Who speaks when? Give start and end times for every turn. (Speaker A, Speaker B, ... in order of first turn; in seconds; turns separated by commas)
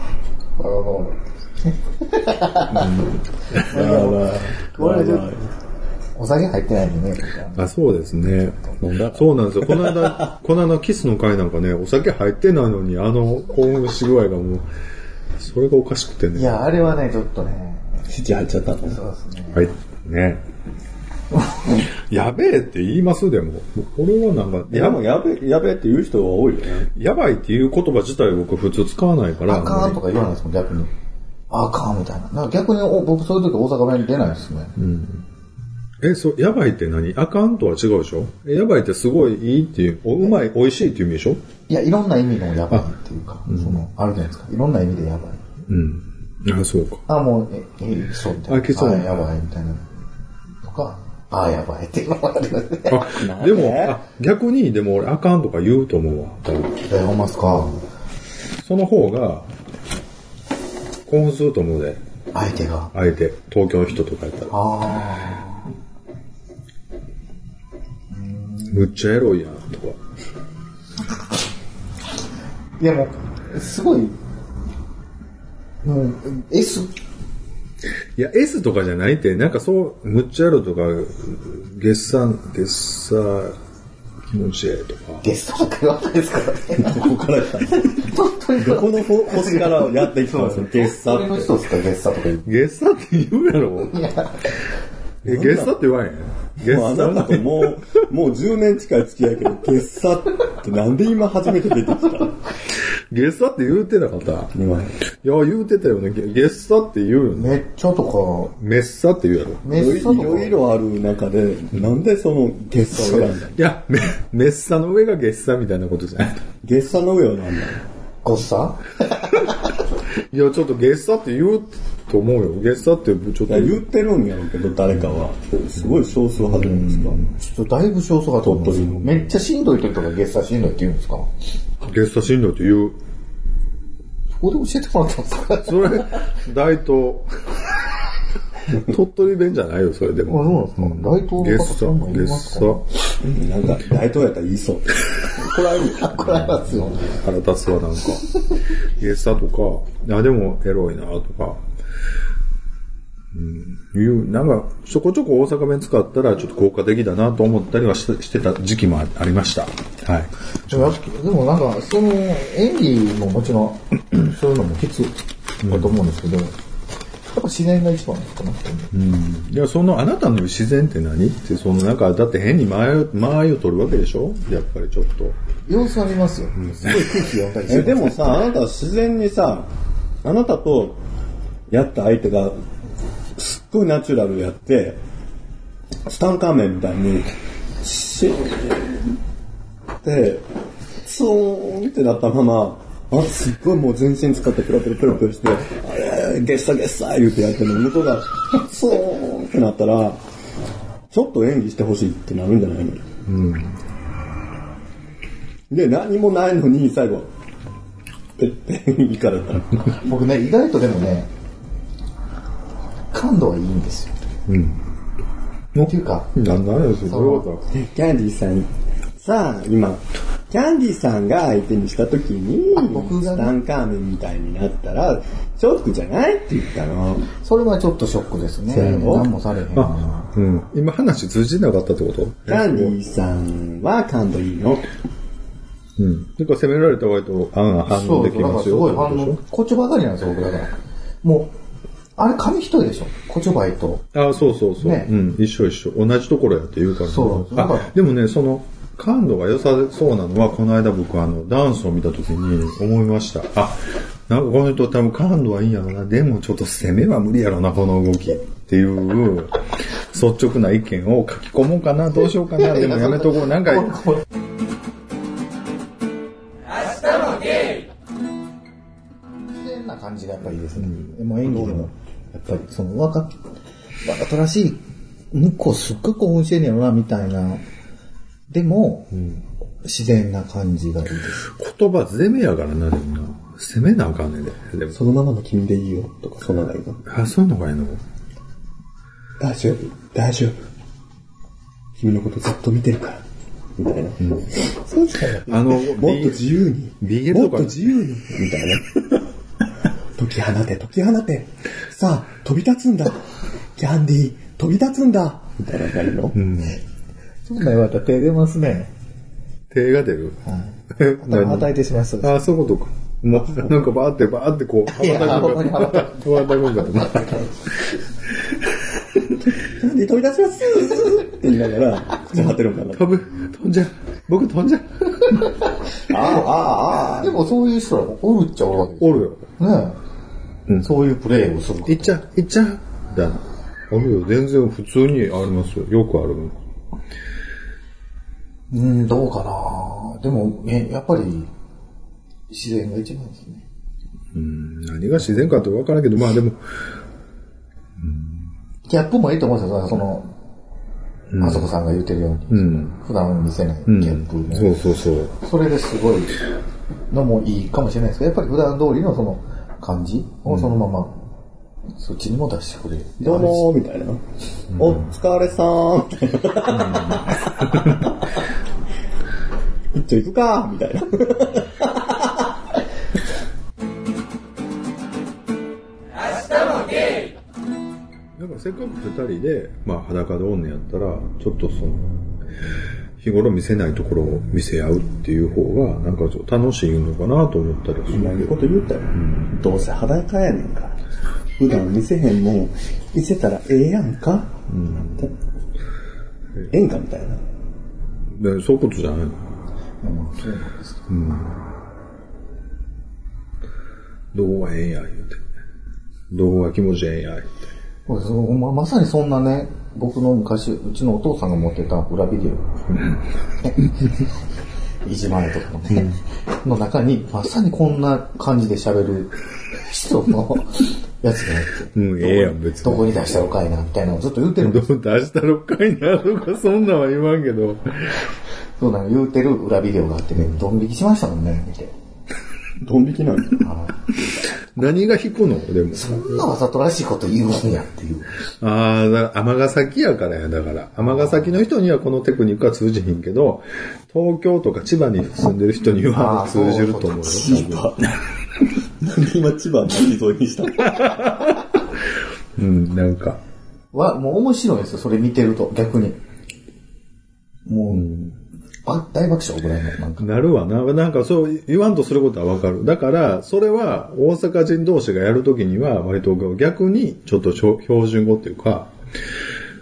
Speaker A: 0.6-3.0, Speaker B: 3.5-5.5, Speaker A: 3.5-5.3, Speaker A: 6.1-7.7, Speaker C: 7.5-14.7, Speaker B: 8.8-10.3, Speaker C: 15.4-16.7, Speaker A: 16.3-18.0, Speaker B: 18.1-19.0, Speaker A: 18.9-19.6, Speaker C: 19.5-20.4, Speaker C: 21.9-25.0, Speaker B: 24.7-26.9, Speaker C: 26.9-30.0, Speaker A: 29.4-30.9, Speaker A: 31.5-34.7, Speaker C: 34.8-35.2, Speaker C: 36.0-41.4, Speaker A: 41.7-45.4, Speaker C: 45.7-47.0, Speaker A: 47.1-49.9, Speaker C: 48.5-49.2, Speaker A: 50.6-53.1, Speaker C: 52.9-56.9, Speaker B: 53.1-54.0, Speaker A: 56.9-57.8, Speaker C: 58.6-59.5, Speaker C: 61.1-62.0, Speaker A: 62.3-62.9, Speaker C: 62.9-64.5, Speaker A: 64.5-65.7, Speaker A: 68.1-68.8, Speaker C: 68.7-70.0, Speaker A: 72.8-74.2, Speaker A: 75.8-76.9, Speaker C: 78.2-83.6, Speaker C: 84.3-85.2, Speaker A: 85.2-87.1, Speaker B: 86.8-91.5, Speaker A: 87.6-92.5, Speaker C: 92.4-94.0, Speaker A: 93.9-94.5, Speaker B: 95.2-95.7, Speaker C: 95.2-97.9, Speaker B: 96.6-102.4, Speaker C: 103.1-104.5, Speaker B: 104.5-105.0, Speaker C: 105.2-107.6, Speaker A: 107.3-108.5, Speaker C: 108.6-109.7, Speaker A: 109.6-110.6, Speaker B: 109.7-113.6, Speaker C: 112.9-116.4, Speaker B: 116.6-117.8, Speaker A: 118.2-119.5, Speaker C: 120.3-123.8, Speaker B: 123.5-127.2, Speaker A: 127.3-131.3, Speaker B: 128.4-129.2, Speaker C: 131.8-133.0, Speaker A: 134.4-136.2, Speaker C: 135.6-137.3, Speaker C: 138.7-142.8, Speaker A: 140.3-142.8, Speaker B: 143.2-146.2, Speaker A: 145.5-147.2, Speaker C: 147.0-148.2, Speaker C: 148.8-151.6, Speaker C: 153.3-161.0, Speaker A: 160.7-166.5, Speaker C: 165.6-166.0, Speaker A: 167.3-168.9, Speaker C: 168.9-175.4, Speaker A: 175.7-178.3, Speaker C: 176.6-177.1, Speaker B: 177.7-179.7, Speaker B: 180.2-181.0, Speaker B: 181.7-182.6, Speaker B: 183.3-185.0, Speaker B: 186.0-189.1, Speaker B: 190.0-190.4, Speaker B: 191.0-200.2, Speaker B: 201.1-203.1, Speaker C: 203.2-203.8, Speaker B: 205.7-207.3, Speaker B: 208.4-209.9, Speaker A: 210.0-211.3, Speaker A: 213.1-214.1, Speaker C: 214.5-214.8, Speaker C: 215.7-217.6, Speaker A: 215.8-216.3, Speaker A: 217.1-217.5, Speaker B: 217.7-227.3, Speaker A: 222.7-223.5, Speaker A: 227.4-230.3, Speaker B: 228.7-229.3, Speaker C: 229.7-232.9, Speaker B: 232.5-234.9, Speaker C: 236.0-239.4, Speaker A: 237.9-241.5, Speaker A: 242.2-244.1, Speaker C: 244.1-264.0, Speaker A: 244.8-245.1, Speaker A: 247.0-247.9, Speaker A: 262.6-264.2, Speaker A: 269.5-273.4, Speaker C: 270.8-271.8, Speaker A: 274.0-277.6, Speaker A: 278.5-279.2, Speaker A: 279.8-281.5, Speaker C: 281.4-285.0, Speaker B: 284.9-287.0, Speaker C: 287.1-288.0, Speaker B: 289.4-290.6, Speaker B: 292.0-293.2, Speaker B: 293.8-299.2, Speaker C: 295.5-296.5, Speaker C: 297.0-298.0, Speaker B: 300.1-306.4, Speaker C: 306.3-306.8, Speaker A: 307.4-308.9, Speaker C: 309.7-310.4, Speaker A: 310.4-312.5, Speaker C: 310.9-317.5, Speaker A: 314.9-317.5, Speaker B: 319.6-323.2, Speaker C: 322.9-325.4, Speaker B: 326.1-327.4, Speaker A: 327.2-330.0, Speaker C: 329.0-329.4, Speaker A: 330.8-332.2, Speaker C: 331.9-336.6, Speaker A: 338.7-341.5, Speaker A: 342.5-343.6, Speaker C: 344.3-346.6, Speaker C: 348.0-348.5, Speaker A: 348.9-350.3, Speaker C: 351.3-351.7, Speaker A: 351.4-356.4, Speaker C: 352.5-352.9, Speaker C: 353.9-355.3, Speaker A: 357.1-361.2, Speaker C: 360.5-360.7, Speaker A: 362.0-363.6, Speaker B: 363.2-364.2, Speaker C: 364.7-365.1, Speaker B: 364.8-368.1, Speaker C: 366.8-367.9, Speaker B: 369.9-372.5, Speaker C: 378.4-382.1, Speaker C: 383.2-388.6, Speaker B: 388.1-391.0, Speaker B: 391.6-394.6, Speaker C: 394.7-395.3, Speaker B: 396.7-397.4, Speaker C: 398.3-399.5, Speaker A: 400.0-401.1, Speaker C: 401.1-401.6, Speaker C: 404.3-405.4, Speaker C: 406.3-407.6, Speaker A: 408.1-412.7, Speaker A: 415.0-424.9, Speaker C: 421.9-423.1, Speaker C: 424.6-428.2, Speaker A: 428.8-431.9, Speaker B: 432.8-433.7, Speaker A: 433.6-433.9, Speaker C: 434.7-436.4, Speaker A: 435.9-438.4, Speaker C: 438.6-448.2, Speaker A: 446.1-447.5, Speaker B: 447.2-448.1, Speaker B: 449.0-451.6, Speaker C: 452.6-453.4, Speaker A: 453.9-456.2, Speaker A: 457.7-458.1, Speaker C: 457.9-458.3, Speaker A: 458.8-460.3, Speaker C: 460.2-468.9